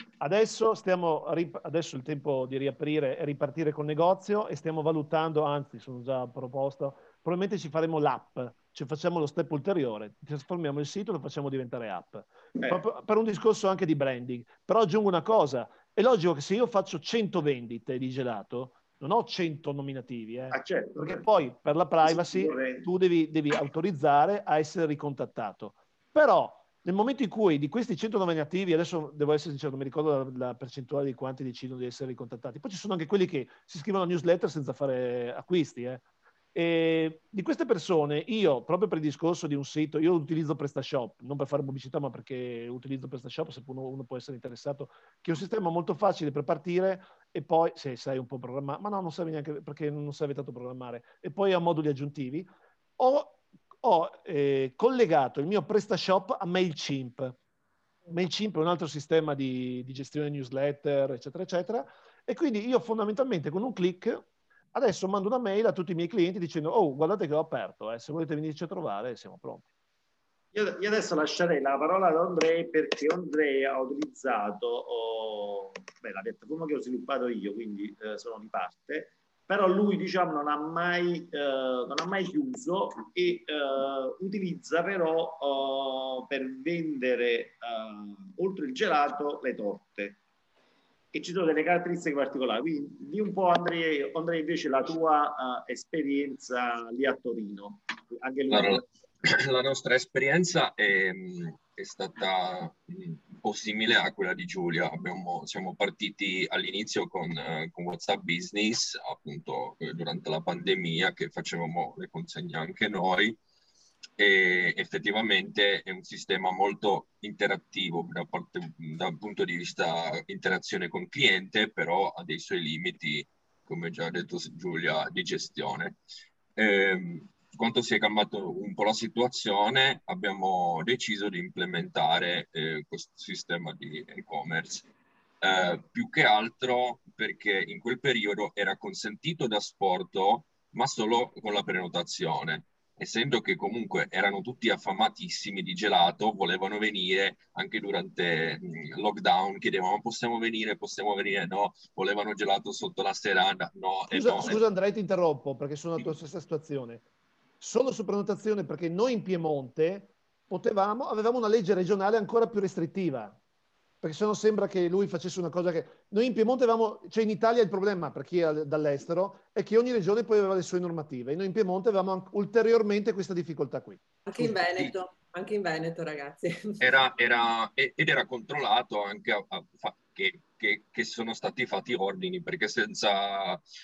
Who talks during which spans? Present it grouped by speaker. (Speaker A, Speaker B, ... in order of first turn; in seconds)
Speaker A: 0.2-57.4, 58.1-69.7, 154.1-157.0, 157.6-163.4, 164.0-174.0
Speaker B: 12.6-12.8, 20.5-21.2, 22.0-22.9, 70.5-90.2, 91.1-98.8
Speaker C: 98.5-113.4, 114.2-126.0, 126.5-134.9, 135.4-154.6, 174.4-174.9, 176.8-183.6
Speaker D: 174.3-177.0